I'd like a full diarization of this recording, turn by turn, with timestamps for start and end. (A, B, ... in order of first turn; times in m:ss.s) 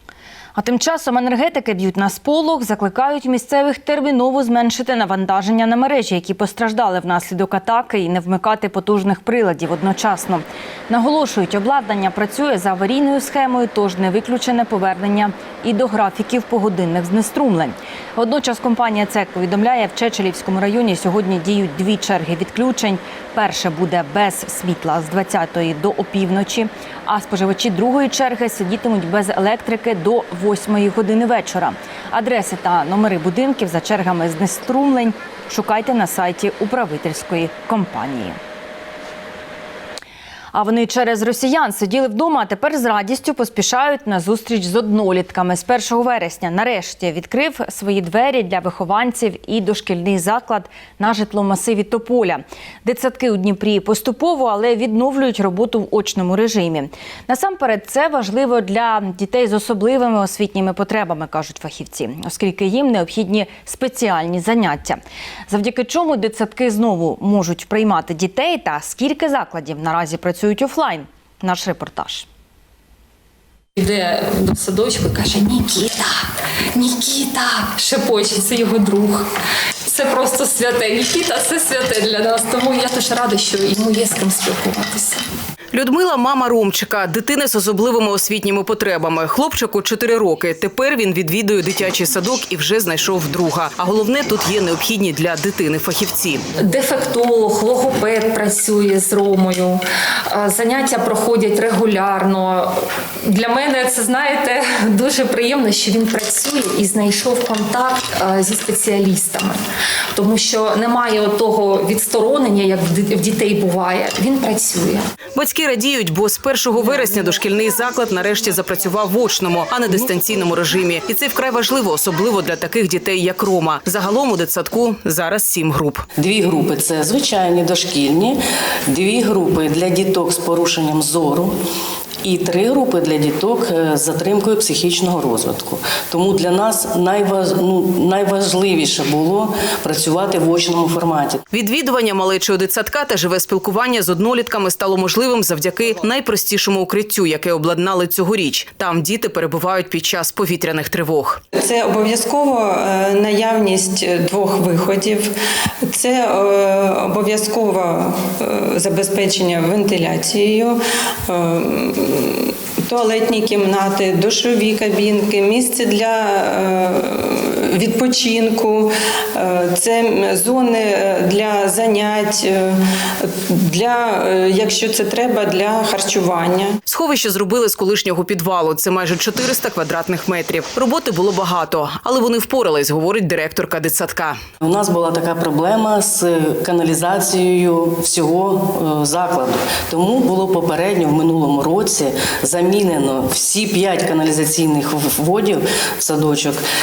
0:00.6-0:38.4 A
0:40.5-1:12.2 A
1:13.8-1:19.3 B
1:19.8-1:25.2 B
1:25.7-1:36.4 C
1:36.6-1:49.6 B
1:50.1-1:55.0 B
1:55.4-2:06.0 C
2:06.2-2:11.6 D
2:12.2-2:21.4 D
2:21.5-2:31.4 C
2:31.6-2:56.8 E
2:56.9-3:04.4 C
3:04.6-3:16.6 D